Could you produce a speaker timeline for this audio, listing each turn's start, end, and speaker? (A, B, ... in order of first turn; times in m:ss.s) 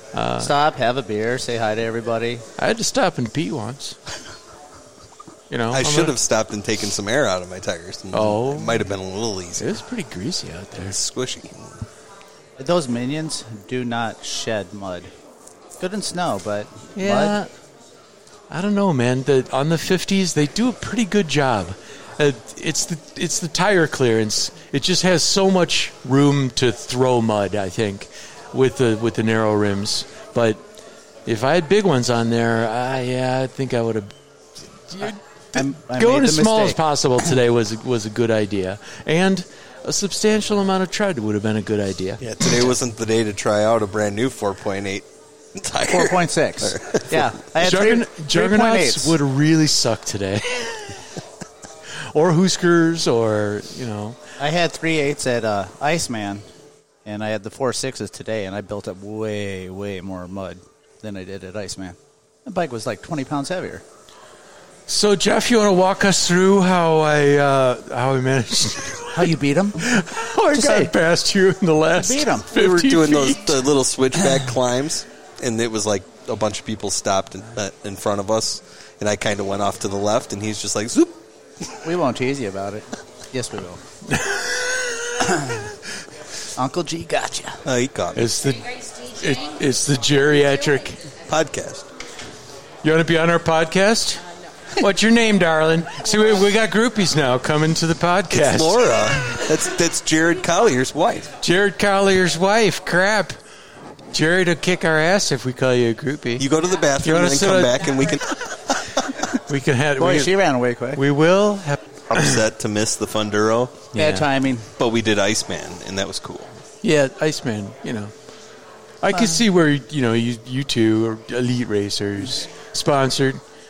0:00.1-0:00.5 A
0:00.4-0:02.4 B
0:02.6-0:04.0 A
0:05.5-0:06.2 A
0:05.7-0:09.7 C
0:08.1-0:08.8 A
0:09.6-0:11.0 A
0:10.8-0:11.7 C
0:12.6-0:15.1 B
0:15.8-0:17.4 B
0:17.0-0:17.5 A
0:18.5-0:30.6 A
0:31.2-0:34.1 A
0:34.9-0:42.7 A
0:35.5-0:36.8 B
0:42.2-0:47.3 C
0:45.9-0:49.2 B
0:47.6-0:50.9 A
0:52.1-0:54.2 A
0:54.4-0:56.4 B
0:57.0-1:03.8 B
1:04.9-1:13.6 A
1:09.1-1:09.8 B
1:10.5-1:10.9 B
1:12.0-1:12.5 B
1:12.5-1:21.2 C
1:21.8-1:23.8 B
1:24.1-1:25.2 A
1:25.3-1:25.6 B
1:26.6-1:27.6 B
1:27.6-1:28.3 C
1:28.1-1:31.0 A
1:31.3-1:31.9 C
1:32.8-1:34.2 A
1:34.8-1:39.4 A
1:38.3-1:41.3 C
1:41.4-1:43.3 A
1:44.1-1:47.9 A
1:46.4-1:48.9 C
1:49.4-1:50.4 A
1:50.0-1:51.0 B
1:50.9-1:52.4 A
1:52.1-1:53.9 C
1:53.9-1:54.3 A
1:53.9-1:54.7 B
1:54.8-1:56.6 C
1:56.8-1:58.1 A
1:59.0-2:03.4 A